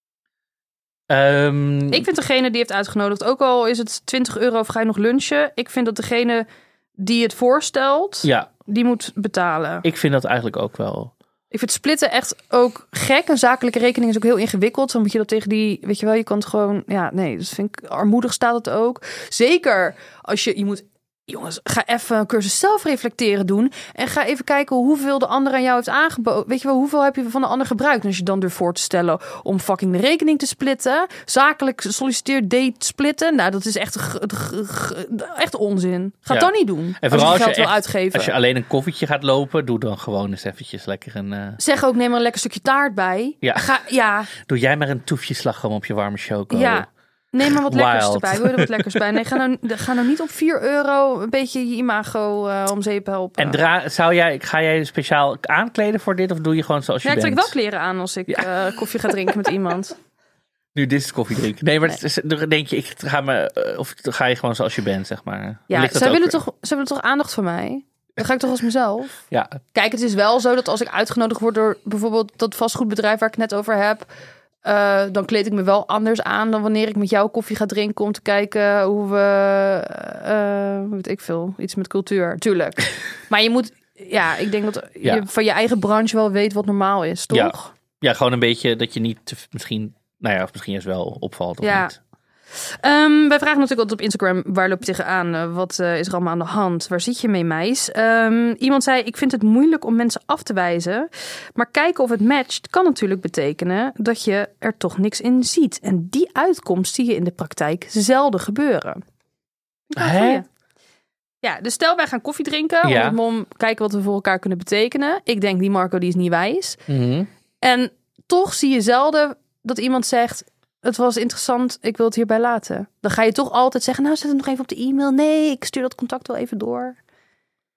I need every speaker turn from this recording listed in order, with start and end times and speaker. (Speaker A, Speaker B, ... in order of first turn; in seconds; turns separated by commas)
Speaker A: 1.1-2.1, Speaker B: 1.9-6.5, Speaker B: 7.0-9.8, Speaker A: 8.2-8.5, Speaker A: 9.8-11.1, Speaker B: 11.5-38.3, Speaker A: 36.3-41.6, Speaker B: 41.6-44.3, Speaker A: 44.3-46.9, Speaker B: 46.5-53.6, Speaker A: 47.4-49.2, Speaker A: 53.4-57.5, Speaker B: 57.0-60.0, Speaker A: 60.8-66.4, Speaker B: 65.7-69.2, Speaker A: 69.3-69.6, Speaker B: 69.7-74.1, Speaker B: 74.6-87.7, Speaker A: 87.3-92.0, Speaker B: 91.6-91.9, Speaker B: 92.5-109.0, Speaker B: 109.9-110.5, Speaker A: 110.0-110.4, Speaker B: 111.4-116.8, Speaker A: 112.8-113.2, Speaker A: 116.9-117.3, Speaker B: 117.6-127.0